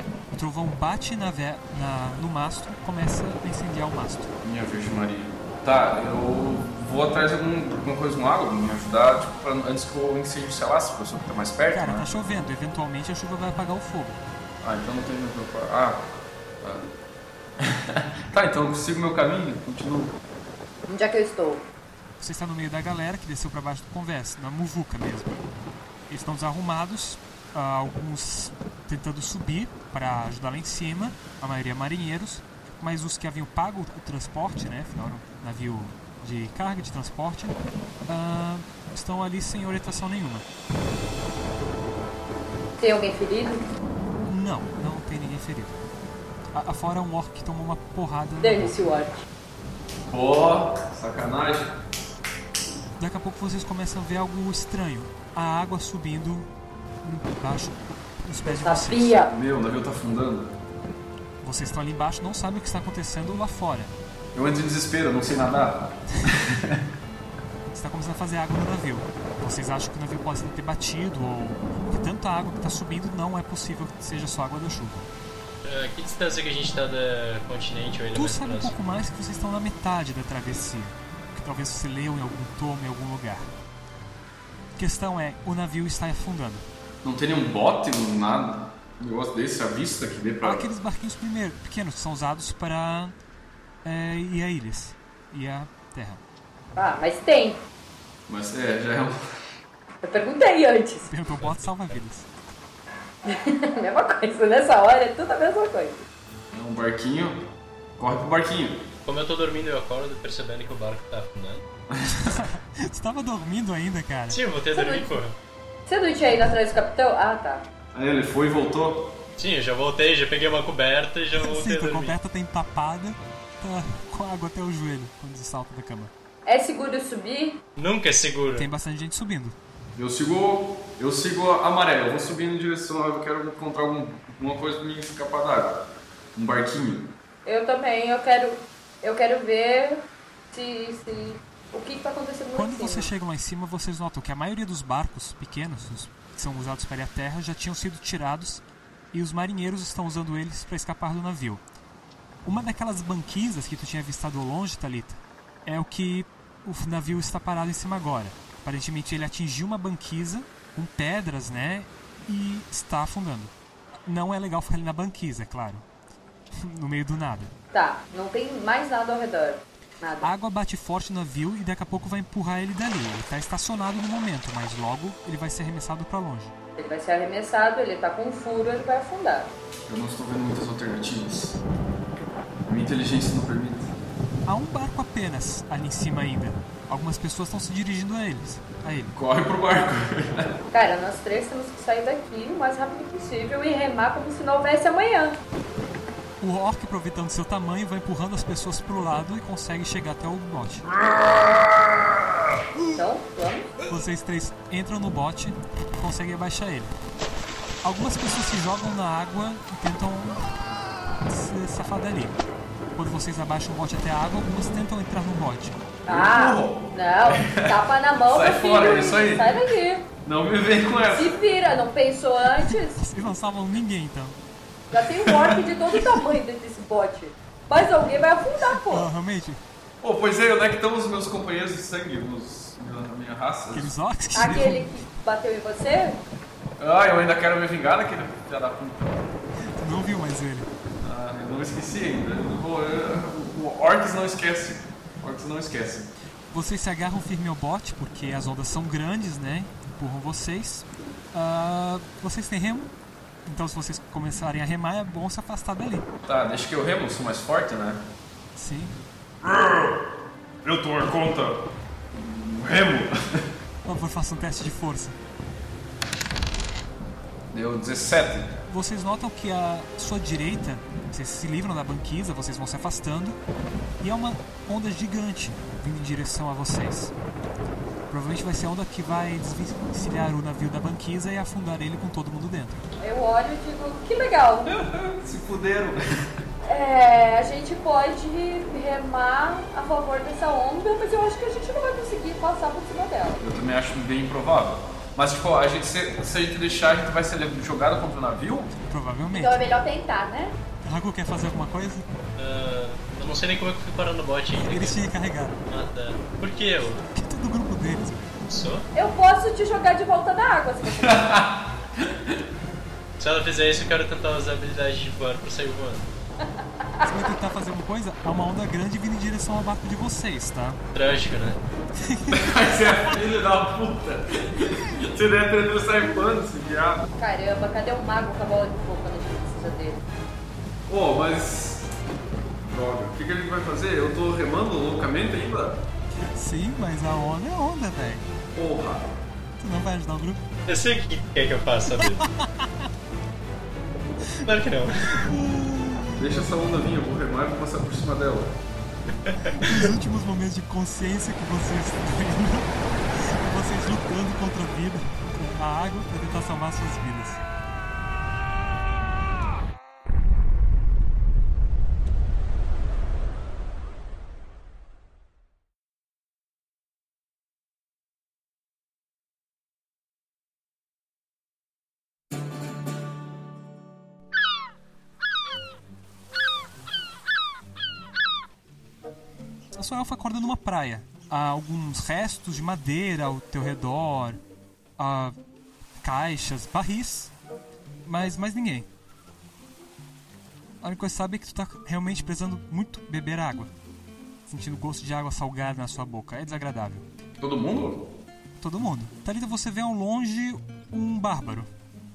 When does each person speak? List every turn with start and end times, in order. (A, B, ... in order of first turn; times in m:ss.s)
0:00.3-0:04.3 A
0:04.4-0:12.1 B
0:11.7-0:14.2 A
0:14.6-0:16.1 B
0:16.6-0:16.9 B
0:17.6-0:20.2 B
0:20.9-0:21.6 C
0:22.2-0:25.3 A
0:26.1-0:40.4 A
0:42.8-0:43.6 C
0:44.2-0:45.8 A
0:46.5-0:48.7 A
0:48.4-0:49.2 C
0:50.1-0:51.8 B
0:53.0-0:56.5 A
0:57.0-0:59.2 A
0:58.6-0:59.3 C
0:59.3-1:00.5 B
1:01.4-1:03.9 A
1:04.3-1:06.8 B
1:07.7-1:15.1 A
1:15.6-1:18.7 D
1:18.1-1:23.5 A
1:24.8-1:26.6 A
1:27.0-1:30.7 B
1:30.4-1:33.1 A
1:33.8-1:36.2 A
1:36.7-1:37.6 C
1:38.3-1:39.2 B
1:40.0-1:41.1 C
1:41.0-1:42.3 A
1:41.4-1:42.0 D
1:43.2-1:46.0 C
1:46.5-1:47.4 B
1:48.0-1:48.9 B
1:49.0-1:51.6 D
1:51.9-1:52.4 B
1:52.0-1:54.4 A
1:54.3-1:55.4 D
1:54.7-1:55.1 C
1:55.9-1:57.6 C
1:57.9-1:59.2 B
1:59.4-2:02.1 D
2:01.4-2:06.1 A
2:06.4-2:07.6 C
2:07.8-2:08.7 D
2:08.6-2:09.6 A
2:10.0-2:17.1 B
2:17.4-2:23.1 C
2:22.5-2:31.6 A
2:32.4-2:43.5 A
2:44.0-2:45.8 A
2:46.6-2:47.5 A
2:47.7-2:50.3 C
2:50.2-2:56.5 A
2:56.8-2:59.5 C
2:59.9-3:01.6 B
3:02.6-3:03.9 B
3:04.4-3:09.2 A
3:09.1-3:10.6 B
3:10.7-3:15.4 C
3:16.4-3:20.9 A
3:22.9-3:23.7 C
3:23.9-3:26.9 A
3:27.8-3:30.5 A
3:31.2-3:32.4 A
3:32.9-3:35.8 A
3:36.1-3:39.6 B
3:36.1-3:40.1 C
3:40.2-3:41.4 B
3:41.1-3:43.0 C
3:42.6-3:44.4 A
3:44.9-3:49.1 C
3:45.3-3:45.6 B
3:48.7-3:49.6 A
3:50.0-3:53.9 B
3:53.7-3:54.9 A
3:54.3-3:56.2 C
3:56.8-3:59.3 B
3:59.8-4:00.7 A
4:01.0-4:06.1 B
4:06.5-4:12.9 A
4:13.4-4:16.1 A
4:16.2-4:18.1 B
4:18.6-4:18.9 A
4:19.4-4:20.0 B
4:20.6-4:21.6 B
4:22.1-4:23.5 B
4:23.8-4:25.2 A
4:27.5-4:28.6 B
4:28.7-4:33.4 A
4:34.0-4:37.1 A
4:38.1-4:42.8 A
4:43.0-4:44.7 C
4:44.6-4:46.0 B
4:46.6-4:53.4 C
4:53.4-4:58.7 B
4:58.8-4:59.6 A
4:59.4-5:00.6 C
5:00.8-5:02.0 A
5:02.4-5:05.0 D
5:04.6-5:05.6 A
5:05.7-5:07.0 D
5:07.1-5:08.3 A
5:08.5-5:08.8 D
5:08.9-5:11.3 C
5:10.9-5:12.4 B
5:13.2-5:16.1 D
5:16.8-5:17.1 C
5:17.0-5:20.8 A
5:20.9-5:21.6 D
5:22.0-5:22.5 A
5:22.3-5:27.1 B
5:27.2-5:30.0 C
5:30.9-5:31.9 B
5:32.7-5:35.8 B
5:36.2-5:38.2 A
5:38.5-5:39.1 B
5:39.6-5:40.4 A
5:40.7-5:42.2 D
5:42.0-5:42.8 A
5:44.4-5:45.3 D
5:45.2-5:46.2 A
5:46.2-5:48.6 B
5:49.2-5:49.8 D
5:49.5-5:57.4 A
6:19.8-6:24.4 A
6:25.0-6:25.4 A
6:26.0-6:27.3 A
6:28.0-6:28.9 A
6:30.8-6:33.7 A
6:34.5-6:37.1 A
6:37.4-6:38.1 B
6:38.6-6:41.7 A